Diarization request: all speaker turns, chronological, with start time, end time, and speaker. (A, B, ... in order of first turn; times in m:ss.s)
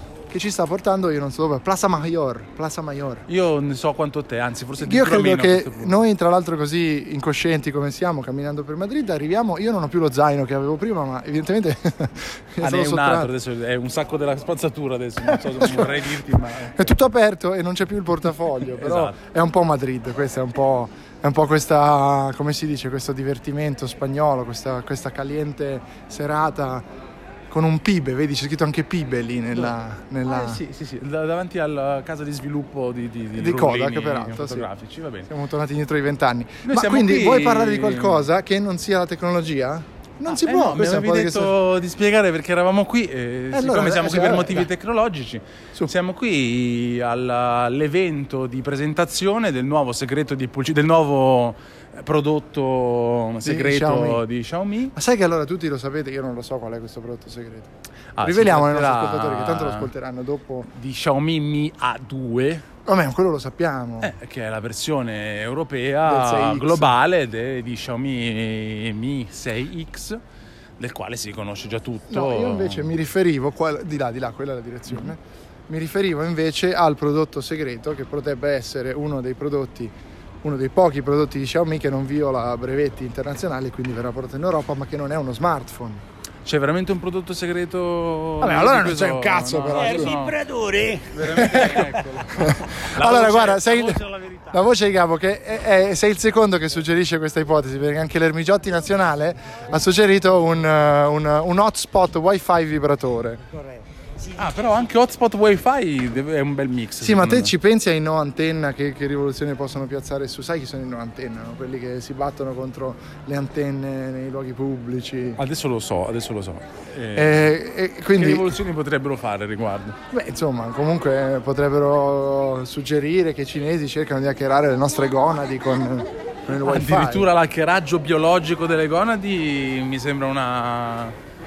0:00.3-0:03.2 A
0:03.3-0:06.0 B
0:04.8-0:13.3 A
0:12.6-0:17.0 B
0:15.3-0:16.0 A
0:16.8-0:26.8 A
0:18.7-0:19.2 B
0:27.5-0:30.6 A
0:30.3-0:35.3 B
0:33.4-0:34.7 A
0:35.3-0:41.6 A
0:36.7-0:38.3 B
0:40.3-0:55.0 B
0:43.5-0:44.7 A
0:53.4-0:54.2 A
0:54.9-1:00.7 A
0:58.2-0:59.9 B
1:00.7-1:02.6 B
1:02.9-1:04.1 A
1:04.0-1:10.2 B
1:06.1-1:07.0 A
1:10.8-1:12.9 B
1:12.1-1:26.0 A
1:26.4-1:30.4 B
1:28.4-1:30.1 A
1:29.7-1:31.9 C
1:31.1-1:34.6 B
1:31.4-1:34.0 A
1:34.5-1:43.4 A
1:44.4-1:47.5 B
1:47.0-1:55.4 A
1:55.4-1:57.5 B
1:57.1-1:58.5 A
1:58.2-2:00.0 B
2:00.1-2:07.3 A
2:06.6-2:11.2 B